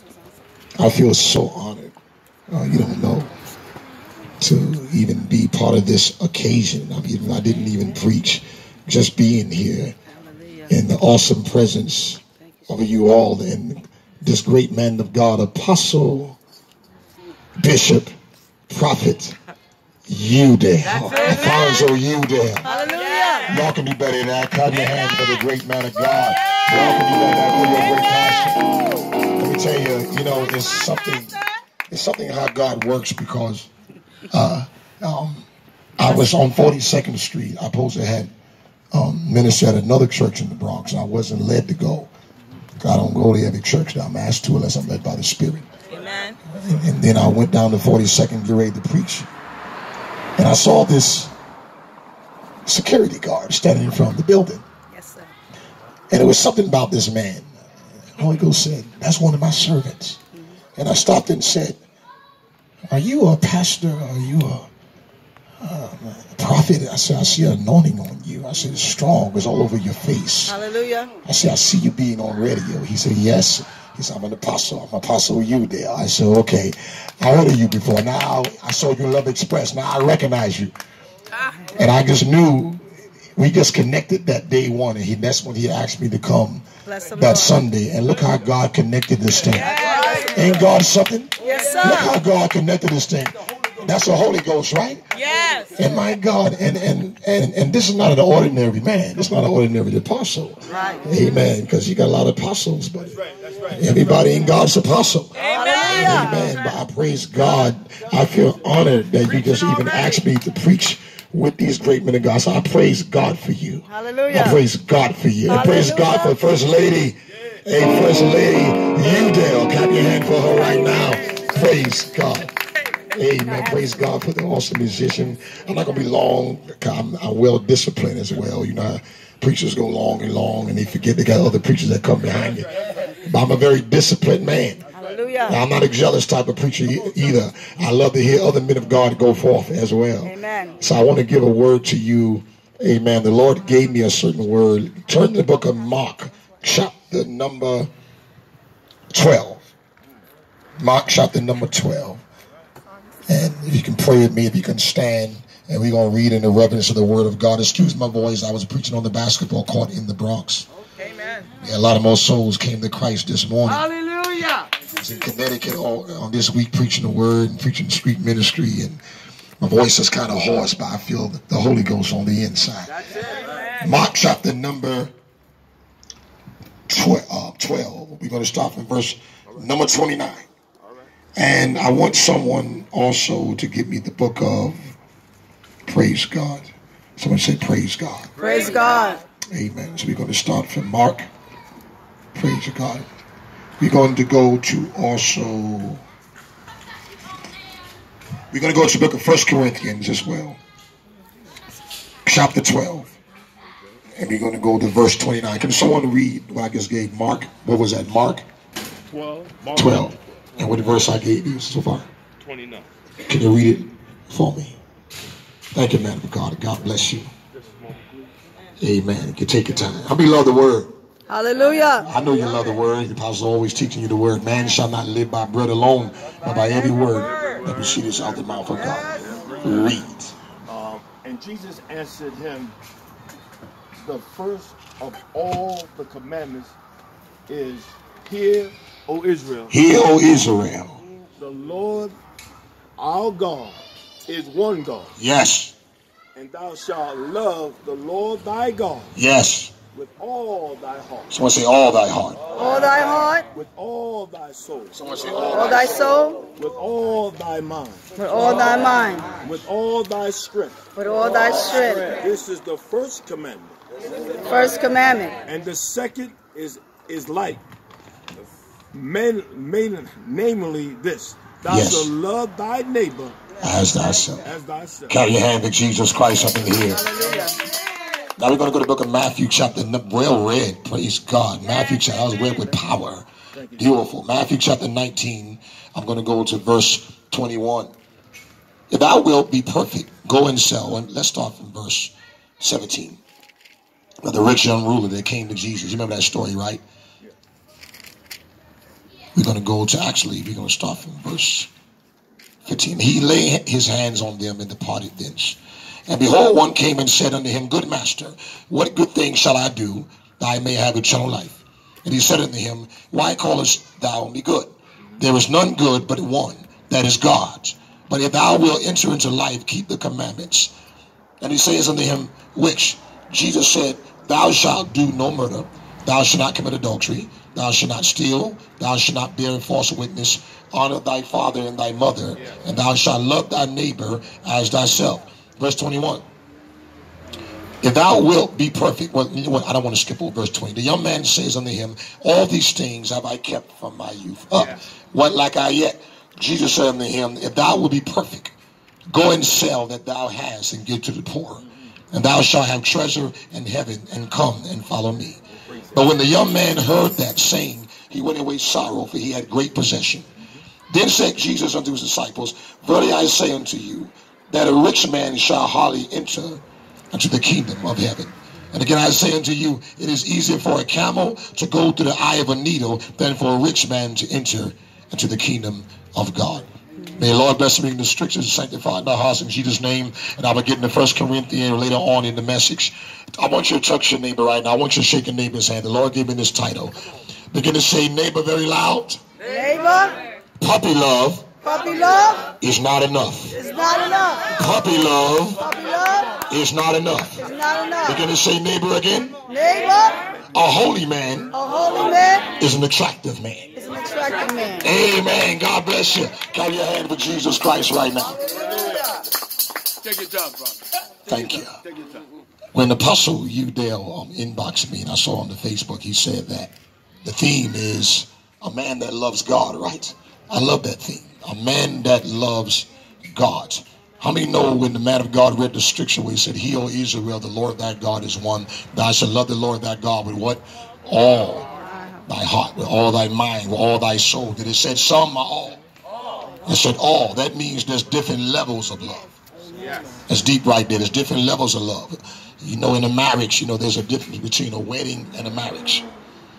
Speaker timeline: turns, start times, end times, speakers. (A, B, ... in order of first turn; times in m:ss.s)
0:00.8-0:02.0 A
0:02.5-0:03.3 A
0:04.4-0:10.0 A
0:10.7-0:16.4 A
0:17.6-0:18.1 A
0:18.7-0:19.4 A
0:20.1-0:22.7 A
0:21.0-0:21.8 B
0:22.7-0:23.5 B
0:23.5-0:28.6 A
0:29.4-0:31.4 A
0:31.9-0:33.7 A
0:34.3-0:35.5 A
0:36.0-0:38.3 A
0:38.9-0:42.1 A
0:42.8-0:45.7 A
0:46.0-0:46.4 B
0:46.5-0:49.3 A
0:50.4-0:51.3 A
0:52.7-0:54.6 A
0:54.9-0:55.3 B
0:56.1-0:57.5 A
0:58.2-1:00.2 A
1:00.8-1:01.8 A
1:02.9-1:04.7 A
1:05.6-1:10.6 A
1:10.5-1:11.1 B
1:11.2-1:20.7 A
1:21.8-1:22.8 A
1:23.4-1:29.8 A
1:26.9-1:27.6 B
1:29.6-1:30.4 B
1:30.3-1:35.0 A
1:31.4-1:32.1 B
1:35.3-1:35.7 B
1:35.8-2:02.5 A
1:40.7-1:41.0 B
1:45.5-1:46.4 B
1:53.9-1:54.6 B
1:55.5-1:56.4 B
2:03.1-2:12.7 A
2:13.2-2:14.8 A
2:15.0-2:15.6 B
2:15.5-2:27.9 A
2:20.2-2:20.8 B
2:29.1-2:29.6 A
2:30.8-2:32.2 A
2:33.3-2:40.7 A
2:41.6-2:43.9 A
2:43.7-2:44.7 B
2:44.9-2:49.0 A
2:49.6-2:53.0 A
2:53.8-2:55.1 A
2:56.9-3:00.5 A
3:01.4-3:04.8 A
3:05.9-3:08.3 A
3:08.4-3:09.2 B
3:09.5-3:11.3 A
3:12.3-3:13.1 A
3:13.8-3:16.0 A
3:18.5-3:20.6 A
3:22.3-3:23.2 A
3:24.2-3:28.4 A
3:29.1-3:30.1 C
3:29.8-3:32.1 A
3:33.2-3:34.8 A
3:35.7-3:37.3 A
3:38.8-3:40.9 A
3:41.3-3:42.1 B
3:42.1-3:50.3 A
3:50.7-3:52.8 C
3:54.0-3:56.8 C
3:57.5-3:59.7 C
3:59.7-4:01.0 A
4:01.4-4:02.2 C
4:03.0-4:05.2 C
4:05.2-4:05.7 A
4:06.4-4:09.2 C
4:09.2-4:09.7 A
4:09.9-4:11.4 C
4:11.3-4:12.4 A
4:12.6-4:13.5 B
4:13.5-4:15.0 C
4:15.0-4:15.8 A
4:15.5-4:16.4 B
4:16.6-4:18.1 C
4:18.2-4:19.4 B
4:19.4-4:20.8 C
4:21.0-4:22.2 B
4:22.1-4:23.8 C
4:24.5-4:25.4 B
4:25.5-4:27.6 C
4:28.9-4:33.4 C
4:31.7-4:32.1 A
4:33.6-4:34.5 A
4:34.4-4:35.2 C
4:35.1-4:37.1 A
4:36.5-4:37.6 B
4:38.4-4:43.3 A
4:43.5-4:43.9 C
4:43.8-4:47.9 A
4:48.9-4:53.2 A
4:54.2-4:56.8 A
4:59.4-5:01.7 A
5:02.6-5:20.7 A
5:21.4-5:36.2 A
5:37.8-5:48.6 A
5:49.1-6:00.3 A
5:55.7-5:56.1 C
6:00.9-6:06.6 A
6:07.1-6:27.0 A
6:27.5-6:29.2 A
6:29.4-6:30.2 B
6:30.6-6:31.5 A
6:31.6-6:32.5 B
6:32.6-6:33.6 A
6:33.5-6:34.5 B
6:34.5-6:35.6 A
6:35.6-6:36.4 B
6:36.5-6:37.4 A
6:37.4-6:38.2 B
6:38.0-6:39.4 A
6:39.5-6:40.2 B
6:40.5-6:41.5 A
6:41.5-6:42.5 B
6:42.6-6:43.7 A
6:43.8-6:44.9 B
6:44.8-6:48.4 A
6:51.3-6:51.8 A
6:52.7-6:56.7 A
6:57.2-7:11.6 A
7:12.3-7:15.8 A
7:16.7-7:19.3 A
7:20.3-7:26.1 A